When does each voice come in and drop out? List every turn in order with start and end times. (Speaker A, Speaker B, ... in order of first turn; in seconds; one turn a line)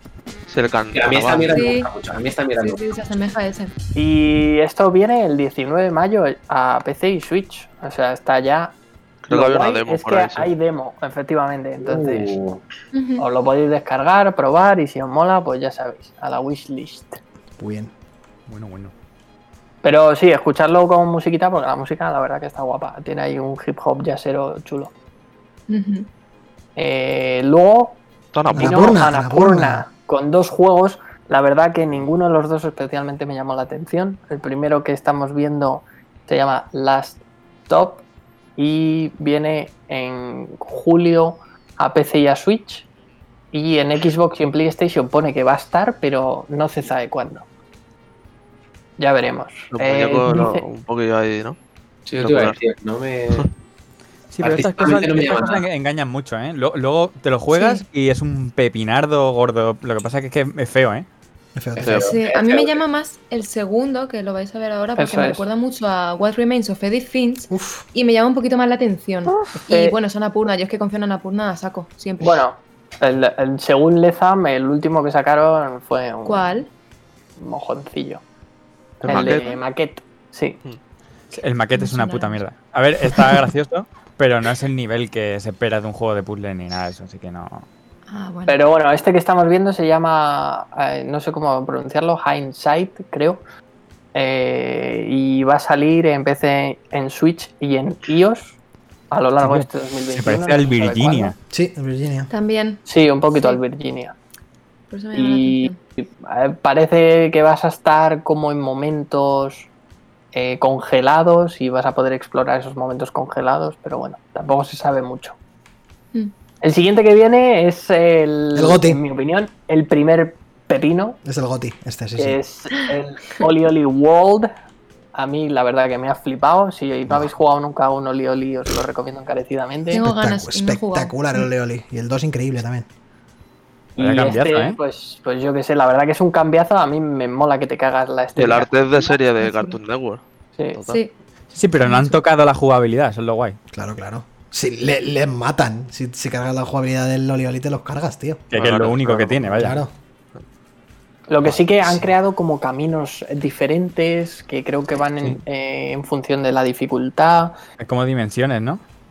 Speaker A: 0.5-1.6
Speaker B: 0.9-2.9
Speaker C: 1.5-1.9
Speaker C: 2.6-3.7
Speaker D: 4.0-8.7
Speaker A: 9.2-10.5
Speaker D: 9.3-12.4
Speaker B: 11.8-12.6
Speaker C: 12.9-13.2
Speaker D: 13.2-17.2
Speaker E: 17.6-17.9
Speaker F: 18.5-18.9
Speaker D: 19.8-24.9
Speaker C: 25.7-26.1
Speaker D: 26.8-28.0
Speaker A: 28.3-29.0
Speaker D: 28.5-38.0
Speaker E: 28.5-29.9
Speaker D: 38.6-42.9
Speaker D: 43.5-47.5
Speaker D: 49.0-50.7
Speaker A: 49.7-51.6
Speaker B: 52.1-53.5
Speaker A: 52.2-52.6
Speaker F: 54.3-61.1
Speaker B: 54.4-55.7
Speaker C: 57.5-57.9
Speaker E: 61.6-62.1
Speaker B: 61.8-62.8
Speaker A: 61.8-62.2
Speaker C: 62.0-72.4
Speaker D: 65.0-65.4
Speaker E: 67.5-67.8
Speaker D: 69.3-70.0
Speaker D: 72.2-76.6
Speaker C: 76.3-76.7
Speaker D: 77.4-78.2
Speaker D: 79.0-80.6
Speaker A: 79.0-79.6
Speaker C: 79.1-79.6
Speaker F: 81.3-87.7
Speaker C: 81.8-82.4
Speaker C: 88.1-88.6
Speaker D: 88.5-93.4
Speaker D: 94.1-98.6
Speaker D: 99.1-101.3
Speaker F: 99.4-101.3
Speaker E: 101.5-102.3
Speaker C: 102.3-102.8
Speaker D: 102.8-104.2
Speaker C: 103.3-103.6
Speaker C: 104.9-105.8
Speaker D: 105.1-109.7
Speaker D: 110.3-115.4
Speaker D: 116.6-121.2
Speaker E: 118.5-119.0
Speaker E: 121.2-122.4
Speaker D: 122.2-124.5
Speaker D: 125.1-130.1
Speaker C: 129.9-131.2
Speaker E: 130.0-132.9
Speaker D: 134.0-138.9
Speaker F: 134.0-134.8
Speaker A: 138.4-140.2
Speaker C: 139.1-139.8
Speaker A: 140.8-141.0
Speaker F: 141.5-143.6
Speaker C: 141.8-142.2
Speaker E: 143.7-148.4
Speaker F: 148.5-149.8
Speaker A: 148.5-149.7
Speaker E: 149.6-149.9
Speaker D: 151.3-157.6
Speaker E: 151.4-152.1
Speaker F: 157.8-158.8